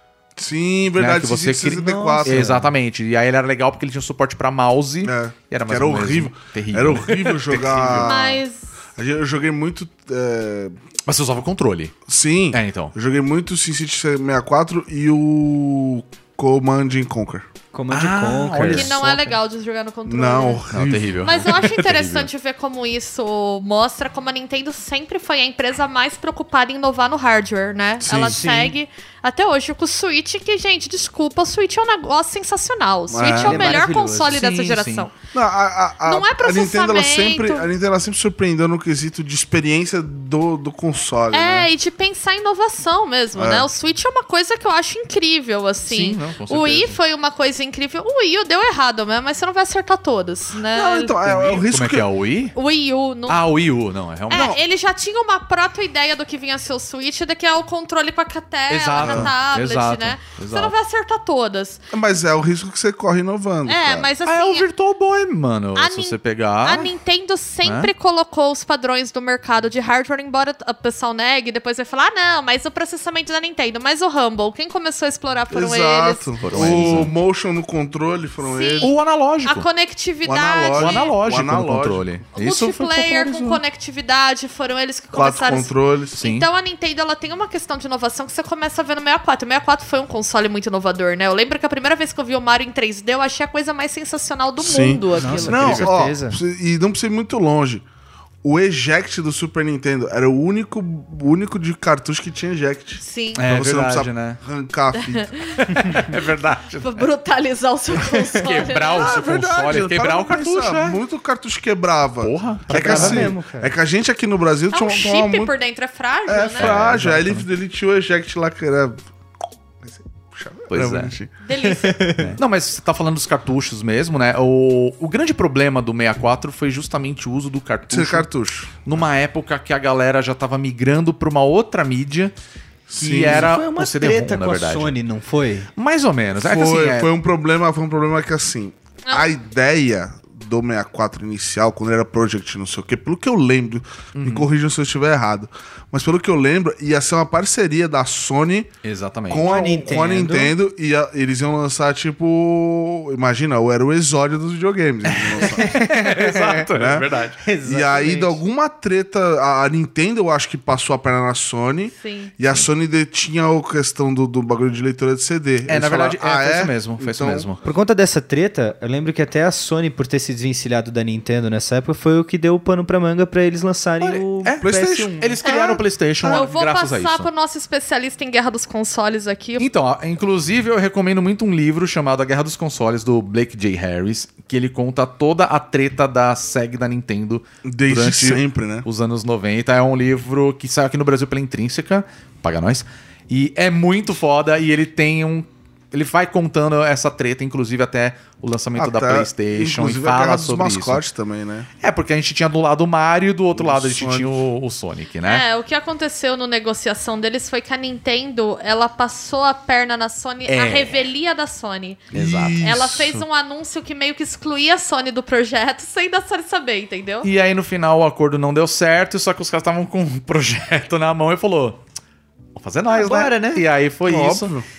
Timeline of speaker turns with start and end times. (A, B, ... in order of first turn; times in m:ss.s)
0:00.4-0:02.6 A
0:01.0-0:08.3 B
0:01.8-0:02.7 C
0:05.0-0:08.4 A
0:08.0-0:08.7 D
0:09.0-0:10.8 A
0:11.0-0:12.0 B
0:12.1-0:17.5 A
0:12.5-0:12.9 B
0:17.7-0:19.0 C
0:17.9-0:19.4 B
0:18.7-0:20.6 D
0:20.0-0:21.2 A
0:20.7-0:22.3 B
0:21.2-0:35.1 D
0:28.0-0:28.4 A
0:28.1-0:28.7 C
0:33.1-0:33.7 A
0:33.4-0:34.4 C
0:34.3-0:35.1 B
0:35.3-0:41.7 A
0:36.0-0:37.7 D
0:41.3-0:51.5 D
0:43.4-0:43.7 A
0:45.8-0:47.0 B
0:50.7-0:52.1 A
0:51.4-0:52.6 B
0:52.5-0:53.4 D
0:53.3-0:54.6 B
0:54.3-1:01.8 D
0:54.3-0:54.6 A
0:58.7-1:00.7 B
0:59.0-0:59.3 A
1:01.9-1:04.1 A
1:03.6-1:04.6 D
1:04.2-1:06.9 B
1:05.8-1:17.0 D
1:07.6-1:07.9 B
1:15.5-1:18.9 A
1:16.4-1:17.1 B
1:18.4-1:21.1 D
1:18.8-1:19.7 B
1:20.2-1:22.0 A
1:20.7-1:23.6 B
1:22.3-1:35.8 D
1:25.1-1:26.2 A
1:26.2-1:26.5 B
1:34.6-1:37.8 A
1:35.2-1:35.9 B
1:35.2-1:36.4 C
1:38.4-1:45.3 A
1:43.0-1:43.4 D
1:43.3-1:44.4 B
1:44.9-1:46.1 D
1:45.6-1:47.1 B
1:46.8-1:49.2 D
1:48.0-1:51.0 B
1:48.9-1:55.5 A
1:52.2-1:53.3 B
1:52.7-1:53.7 C
1:54.7-1:56.7 D
1:56.3-1:59.0 A
1:56.6-1:57.4 B
1:59.8-2:01.3 A
2:00.7-2:01.1 B
2:01.4-2:02.1 D
2:01.6-2:02.4 C
2:02.2-2:08.3 B
2:07.9-2:09.0 A
2:08.8-2:12.3 B
2:12.9-2:13.5 A
2:13.0-2:14.9 B
2:13.2-2:15.7 C
2:15.8-2:17.1 B
2:16.4-2:28.7 A
2:19.0-2:19.3 D
2:24.1-2:24.5 B
2:28.8-2:29.5 B
2:29.3-2:35.7 A
2:29.4-2:30.5 C
2:35.0-2:37.4 B
2:35.4-2:36.7 C
2:36.7-2:37.1 A
2:37.4-2:38.4 C
2:37.6-2:47.5 A
2:41.9-2:42.3 D
2:45.7-2:47.6 B
2:47.6-2:55.3 C
2:54.0-2:57.3 B
2:54.6-2:56.5 A
2:55.4-2:55.7 D
2:56.2-2:59.7 D
2:59.6-3:21.0 B
3:07.6-3:08.8 A
3:18.8-3:21.7 A
3:21.8-3:25.4 B
3:23.5-3:24.4 A
3:25.2-3:37.3 D
3:30.5-3:31.0 B
3:32.1-3:33.1 A
3:32.1-3:33.2 B
3:37.2-3:41.8 B
3:42.6-3:44.5 B
3:42.9-3:43.6 C
3:44.0-3:44.6 A